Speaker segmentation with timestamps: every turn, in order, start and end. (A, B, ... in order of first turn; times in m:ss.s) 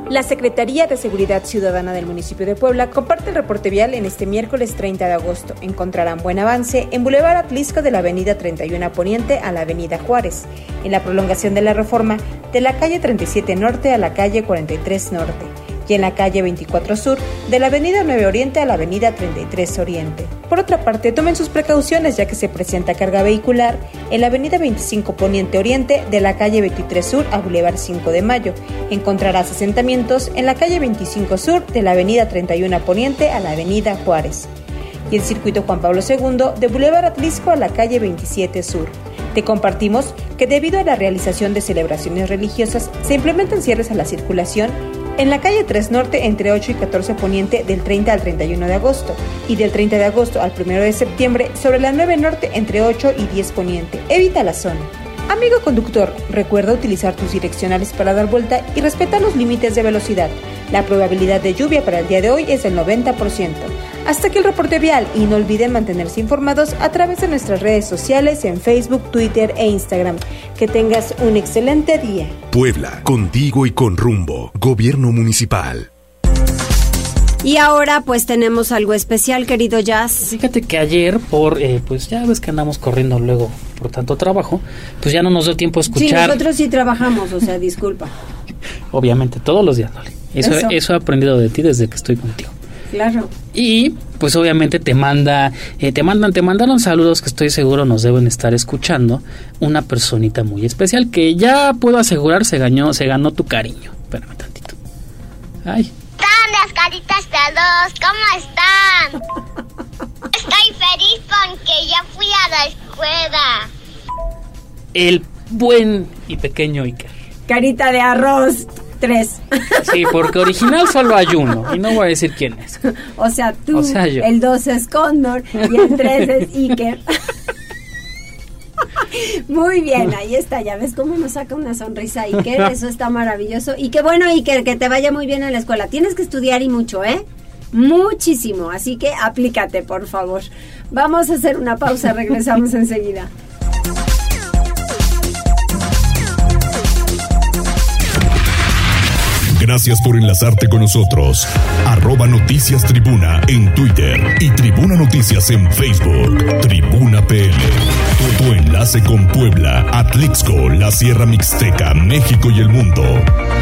0:00.1-0:34.5 A
0:35.1-1:12.4 A
1:12.5-1:15.9 B
1:17.4-1:20.3 C
1:20.2-1:26.4 D
1:25.9-1:28.1 C
1:28.9-1:32.5 D
1:30.4-1:30.8 C
1:32.9-1:33.3 C
1:33.5-1:44.8 D
1:45.6-1:45.9 D
1:46.2-1:49.2 E
1:50.4-1:53.7 E
1:54.9-1:57.1 D
1:57.5-2:00.1 C
1:59.8-2:02.8 D
2:03.1-2:07.0 C
2:03.7-2:04.3 D
2:09.0-2:23.3 C
2:29.6-2:43.3 F